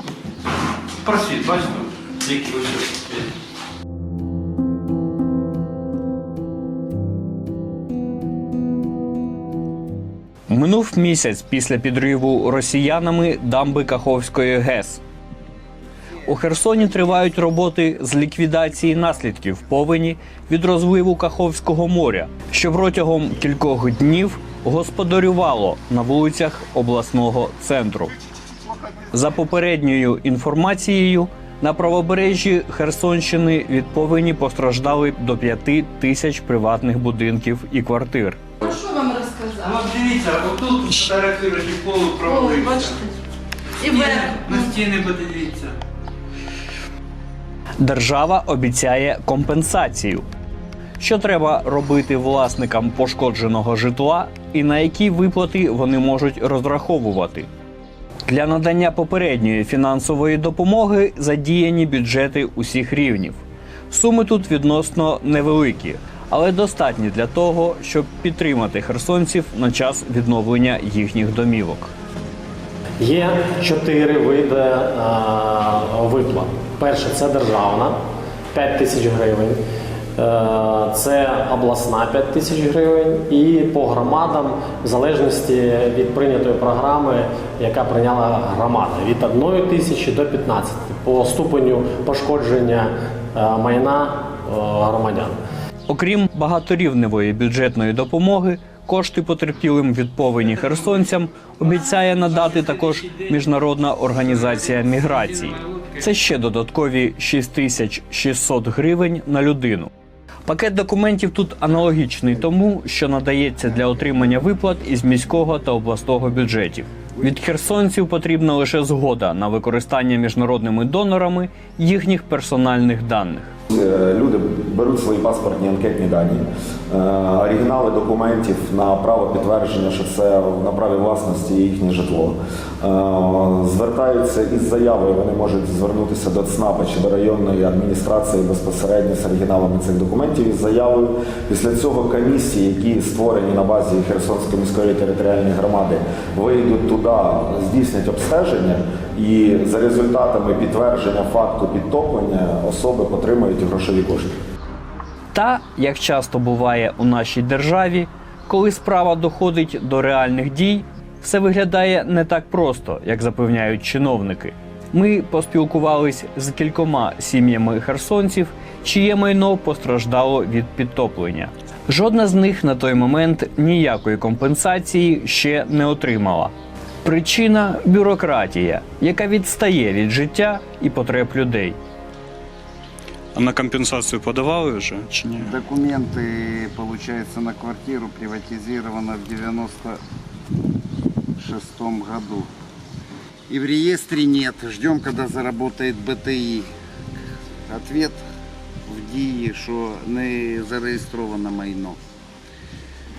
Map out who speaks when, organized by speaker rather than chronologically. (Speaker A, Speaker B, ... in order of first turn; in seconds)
Speaker A: 1.0-3.2, 39.7-43.0, 43.9-45.8, 105.6-105.9
Speaker B: 10.5-15.0, 16.2-28.1, 29.1-38.4, 47.8-50.3, 51.0-57.5, 58.3-71.9, 95.9-109.9, 110.5-123.5, 155.3-176.5, 177.0-181.8
Speaker C: 38.6-39.8, 42.2-43.1, 43.8-44.8
Speaker D: 73.0-78.0, 78.5-79.6, 80.2-95.4
Speaker E: 123.7-154.3
Speaker F: 183.3-185.5
Speaker G: 185.4-190.0, 191.4-192.5, 193.5-196.7, 197.7-198.2, 198.9-202.0